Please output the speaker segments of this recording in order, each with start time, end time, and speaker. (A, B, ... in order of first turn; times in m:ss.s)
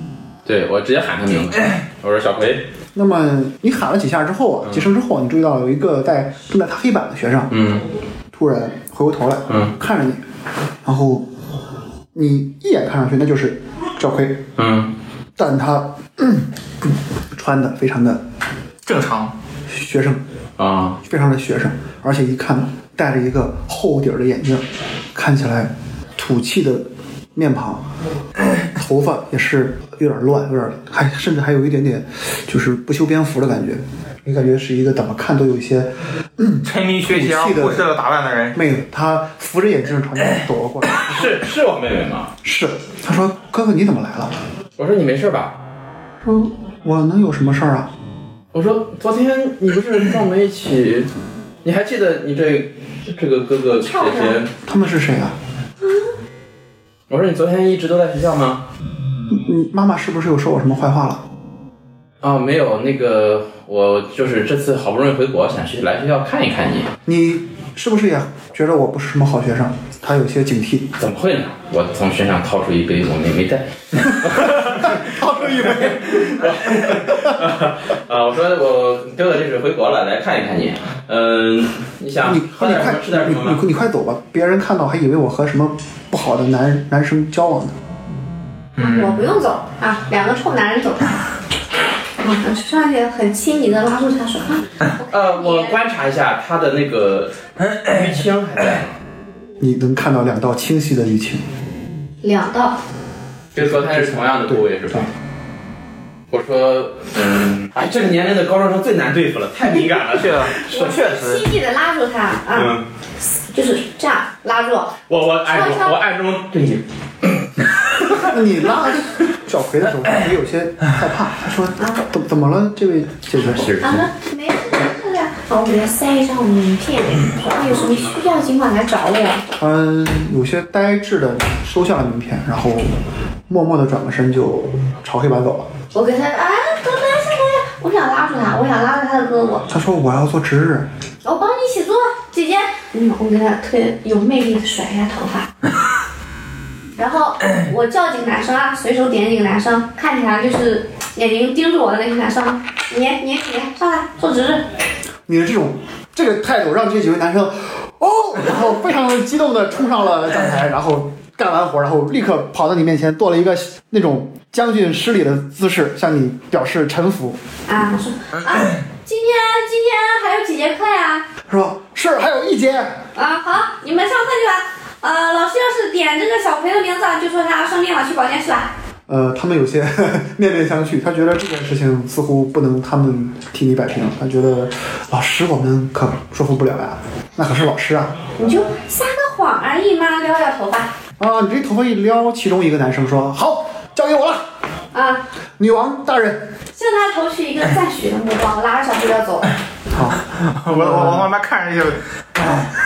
0:00.4-0:02.7 A
0:02.9-0:07.5 B
0:07.5-0:07.8 A
0:08.3-0:10.2 B
0:09.5-0:09.7 A
0:10.8-0:11.3 B
0:12.1-0:14.5 B
0:14.6-0:14.9 A
0:15.4-0:18.2 B
0:18.8-0:19.3 C
0:19.7-0:20.2 B
0:20.6-0:21.0 A
0:21.0-0:27.8 B
0:28.6-0:37.9 B
0:36.6-0:38.6 C
0:38.5-0:41.4 B
0:41.0-0:42.3 A
0:42.4-0:44.4 B
0:44.8-0:45.6 A
0:46.2-0:46.5 D
0:46.8-0:47.9 B
0:48.5-0:51.1 A
0:51.6-0:54.5 A
0:53.8-0:54.4 D
0:54.6-0:55.3 B
0:57.1-0:58.6 A
0:59.3-1:01.2 B
1:02.2-1:06.9 A
1:07.0-1:11.0 B
1:11.0-1:23.6 A
1:14.8-1:16.6 B
1:22.2-1:27.8 B
1:28.8-1:29.2 C
1:28.8-1:31.1 D
1:32.2-1:35.8 D
1:35.1-1:38.9 A
1:39.6-1:41.4 B
1:42.2-1:42.8 D
1:43.5-1:45.1 A
1:43.6-1:45.0 B
1:46.3-1:51.0 A
1:49.8-1:51.4 C
1:50.6-1:52.7 D
1:52.5-1:52.8 A
1:53.5-1:54.9 D
1:55.1-1:57.5 A
1:55.5-1:56.0 D
1:58.2-2:03.8 B
2:01.8-2:02.0 D
2:03.3-2:04.0 A
2:03.8-2:09.4 D
2:09.6-2:15.7 B
2:15.9-2:19.7 D
2:19.7-2:20.9 B
2:21.2-2:25.5 D
2:27.0-2:34.6 D
2:35.3-2:47.4 B
2:47.7-2:51.2 D
2:51.5-2:53.0 B
2:53.2-2:58.7 D
2:59.1-3:08.2 B
3:08.4-3:10.9 D
3:11.2-3:14.4 B
3:14.9-3:15.2 D
3:15.6-3:16.5 B
3:16.7-3:19.5 D
3:19.9-3:21.3 B
3:20.3-3:22.0 C